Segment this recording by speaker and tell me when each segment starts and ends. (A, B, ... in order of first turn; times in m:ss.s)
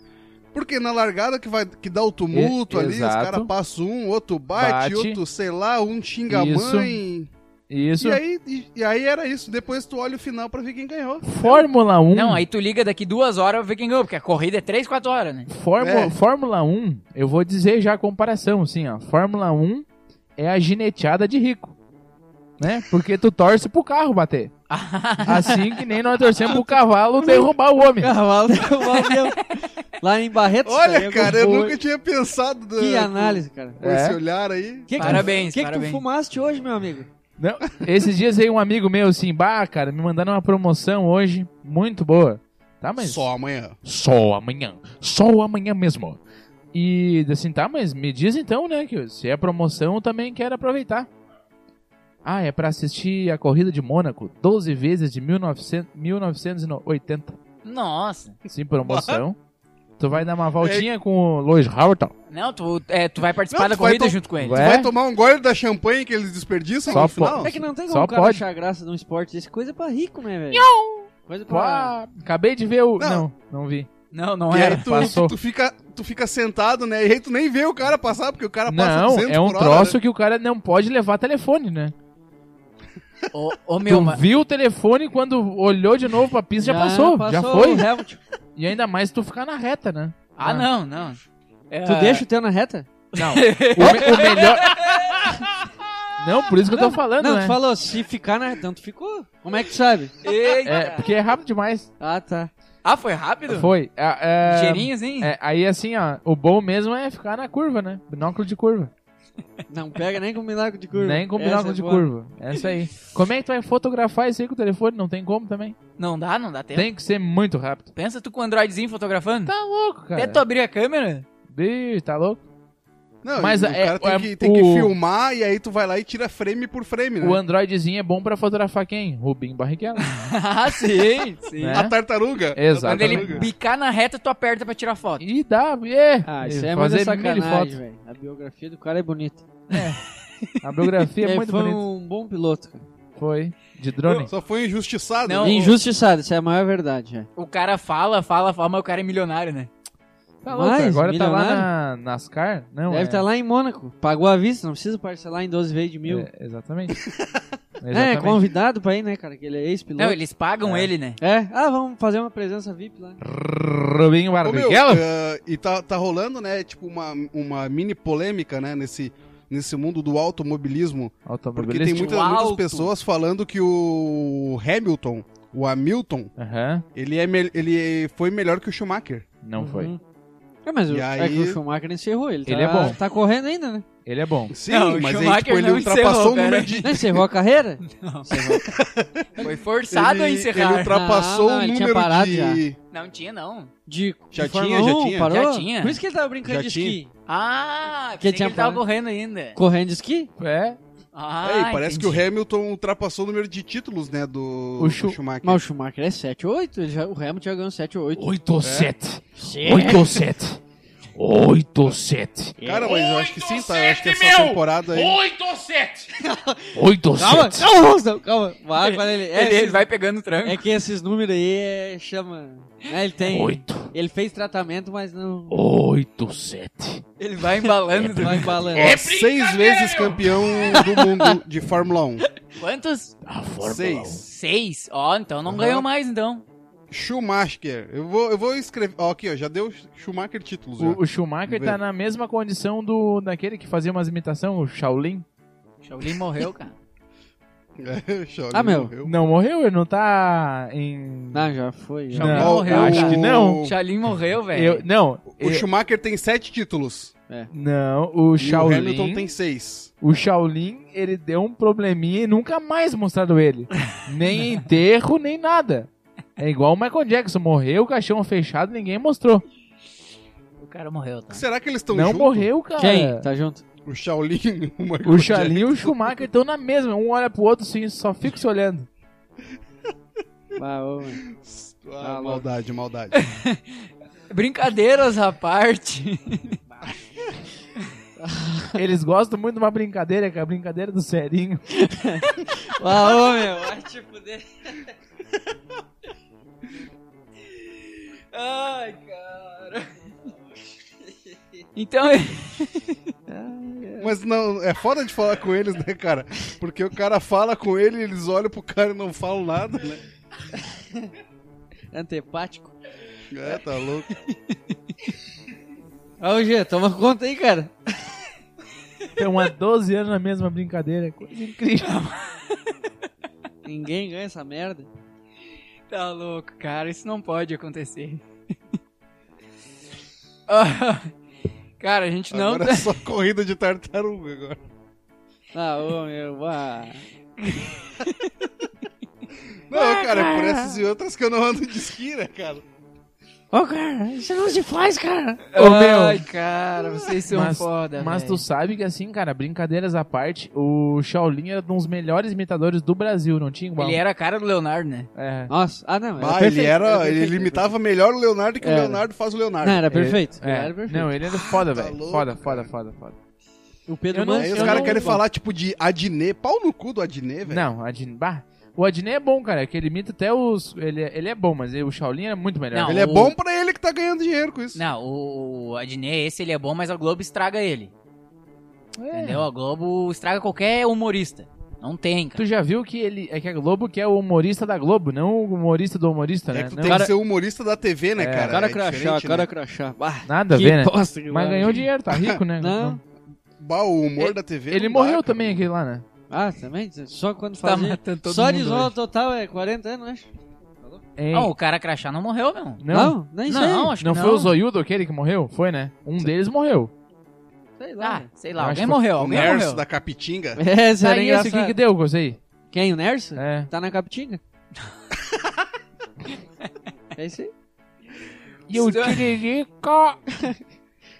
0:00.5-0:07.3 A
0:02.3-0:03.5 B
0:04.5-0:05.2 B
0:06.3-0:07.0 B
0:07.7-0:08.2 B
0:08.0-0:11.6 A
0:11.2-0:12.4 B
0:12.1-0:15.5 C
0:15.5-0:19.8 B
0:15.8-0:16.1 A
0:20.4-0:21.7 B
0:22.6-0:24.5 B
0:24.7-0:25.7 C
0:25.2-0:28.1 B
0:27.2-0:31.8 D
0:30.6-0:35.2 A
0:32.8-0:33.8 D
0:33.8-0:34.2 B
0:34.9-0:37.1 D
0:34.9-0:36.0 C
0:37.4-0:43.2 B
0:43.0-0:43.8 A
0:43.8-0:46.2 B
0:46.7-0:51.1 B
0:52.2-0:57.4 B
0:57.6-0:58.4 C
0:58.5-0:59.4 B
0:58.8-0:59.2 A
1:00.0-1:02.1 B
1:00.6-1:00.9 A
1:02.3-1:04.6 C
1:03.5-1:07.6 A
1:04.5-1:04.9 B
1:06.9-1:08.4 B
1:07.4-1:10.7 D
1:10.5-1:13.9 B
1:11.3-1:11.9 D
1:13.0-1:13.2 A
1:14.1-1:15.1 C
1:14.5-1:20.0 A
1:14.7-1:15.3 B
1:18.7-1:21.9 B
1:23.3-1:24.2 C
1:23.8-1:27.9 B
1:26.6-1:28.2 D
1:28.6-1:30.7 B
1:30.4-1:31.2 C
1:31.7-1:32.2 C
1:31.8-1:32.9 D
1:33.1-1:35.4 C
1:33.2-1:34.8 B
1:36.2-1:37.6 B
1:36.6-1:40.9 D
1:40.2-1:41.0 C
1:40.6-1:41.9 B
1:42.0-1:42.5 D
1:42.8-1:43.7 C
1:43.5-1:48.9 B
1:44.4-1:45.3 C
1:49.7-1:52.1 D
1:50.9-1:55.7 B
1:56.0-1:56.9 C
1:56.7-1:57.9 B
1:58.0-1:59.5 C
1:59.4-2:00.4 B
2:00.1-2:01.2 C
2:01.5-2:02.4 B
2:03.2-2:07.4 A
2:03.4-2:04.9 B
2:07.2-2:10.1 B
2:10.1-2:11.8 C
2:11.6-2:11.9 B
2:11.7-2:13.5 A
2:12.6-2:13.4 B
2:12.8-2:15.2 C
2:15.2-2:17.8 B
2:16.2-2:19.5 D
2:19.7-2:20.0 B
2:20.4-2:20.8 C
2:20.6-2:21.8 B
2:21.2-2:22.8 D
2:23.2-2:24.3 B
2:24.0-2:24.3 C
2:24.3-2:25.7 A
2:25.2-2:25.7 C
2:25.4-2:27.3 D
2:27.4-2:29.7 C
2:30.4-2:33.2 B
2:30.5-2:31.7 D
2:32.9-2:36.3 D
2:36.1-2:37.0 B
2:37.8-2:38.4 B
2:37.9-2:40.2 D
2:40.0-2:41.2 C
2:40.6-2:40.9 B
2:41.2-2:43.2 D
2:43.2-2:45.0 B
2:44.4-2:56.3 A
2:51.2-2:52.1 B
2:51.9-2:52.9 C
2:56.4-2:56.8 B
2:56.9-2:59.3 A
2:59.4-2:59.9 B
2:59.6-3:00.0 D
3:00.6-3:03.8 D
3:00.9-3:01.6 A
3:02.4-3:03.0 B
3:04.0-3:04.5 B
3:04.5-3:07.2 A
3:04.7-3:06.8 C
3:06.8-3:08.6 D
3:07.8-3:08.6 C
3:08.7-3:12.8 A
3:09.4-3:11.0 C
3:10.9-3:12.6 D
3:12.9-3:13.7 C
3:13.9-3:17.1 D
3:14.3-3:15.3 A
3:15.2-3:16.0 C
3:16.4-3:17.0 A
3:17.3-3:19.6 C
3:18.2-3:18.8 D
3:19.6-3:20.3 D
3:20.4-3:20.8 B
3:21.1-3:22.2 C
3:21.4-3:25.6 A
3:24.8-3:25.2 B
3:25.4-3:28.3 D
3:28.1-3:30.6 B
3:28.6-3:28.9 A
3:29.4-3:30.2 D
3:31.2-3:36.1 B
3:32.6-3:33.0 D
3:32.6-3:35.2 A
3:36.2-3:39.8 D
3:36.7-3:37.7 B
3:38.8-3:40.7 C
3:40.4-3:45.6 D
3:43.3-3:43.9 B
3:45.5-3:47.0 B
3:47.2-3:48.7 C
3:47.9-3:50.8 B
3:48.2-3:49.0 D
3:48.8-3:52.2 A
3:50.7-3:51.3 D
3:52.6-3:53.2 C
3:53.2-3:54.2 B
3:53.6-3:54.2 A
3:54.1-3:56.4 C
3:55.5-3:55.8 A
3:56.9-4:01.8 A
4:00.8-4:05.2 B
4:05.8-4:06.7 C
4:07.8-4:09.1 A
4:08.5-4:08.9 D
4:09.0-4:11.5 B
4:11.3-4:12.5 D
4:12.1-4:14.8 C
4:12.2-4:13.6 B
4:12.2-4:13.8 A
4:14.5-4:15.6 B
4:15.3-4:17.1 A
4:17.5-4:19.3 B
4:18.4-4:19.9 A
4:20.0-4:29.4 B
4:30.6-4:31.4 C
4:31.3-4:32.5 A
4:31.9-4:33.2 B
4:32.8-4:33.6 D
4:33.8-4:36.0 A
4:35.0-4:38.9 B
4:40.6-4:41.2 D
4:41.4-4:43.2 A
4:42.0-4:42.4 D
4:43.1-4:46.6 C
4:48.2-4:48.8 D
4:48.8-4:51.6 B
4:51.9-4:54.9 D
4:58.3-5:00.3 D
4:58.8-4:59.1 C
5:01.0-5:01.6 D
5:01.8-5:03.0 C
5:03.3-5:04.1 D
5:04.0-5:10.0 A
5:10.5-5:11.1 D
5:11.9-5:12.7 D
5:13.3-5:14.1 A
5:16.2-5:17.7 D
5:19.2-5:22.0 B
5:21.8-5:22.6 C
5:23.6-5:24.9 D
5:25.9-5:28.2 C
5:30.5-5:31.1 C
5:31.8-5:32.9 C
5:32.3-5:34.6 A
5:35.5-5:37.0 D
5:37.4-5:38.3 C
5:39.7-5:42.6 A
5:39.7-5:40.8 D
5:43.5-5:45.4 D
5:45.5-5:48.4 C
5:45.6-5:46.2 B
5:47.3-5:54.0 B
5:53.8-5:55.1 C
5:55.2-5:55.5 B
5:55.5-5:57.7 D
5:56.2-5:59.9 A
5:58.6-5:59.0 D
5:59.6-6:01.1 D
5:59.9-6:03.2 B
6:01.2-6:02.7 A
6:03.9-6:05.2 D
6:04.1-6:05.2 B
6:04.4-6:07.7 A
6:07.5-6:13.0 B
6:12.7-6:13.3 C
6:12.8-6:14.8 A
6:14.7-6:17.9 C
6:19.0-6:19.4 B
6:19.1-6:22.4 C
6:22.4-6:27.0 B
6:26.5-6:29.5 A
6:26.8-6:27.1 D
6:28.2-6:28.6 B
6:28.5-6:31.8 D
6:30.2-6:33.0 B
6:32.1-6:32.4 A
6:32.6-6:33.0 D
6:33.6-6:35.6 A
6:34.7-6:36.0 B
6:36.3-6:40.3 D
6:37.6-6:38.9 C
6:41.2-6:41.5 B
6:41.3-6:42.8 C
6:42.8-6:43.2 B
6:42.9-6:43.9 D
6:43.4-6:44.5 C
6:44.0-6:46.9 B
6:47.8-6:48.3 D
6:48.0-6:49.8 C
6:48.6-6:49.0 B
6:49.2-6:50.6 A
6:50.6-6:51.8 D
6:51.0-6:52.4 B
6:52.7-6:54.4 D
6:53.4-6:53.7 B
6:57.2-6:57.5 D
6:58.7-7:00.2 B
6:58.7-6:59.3 C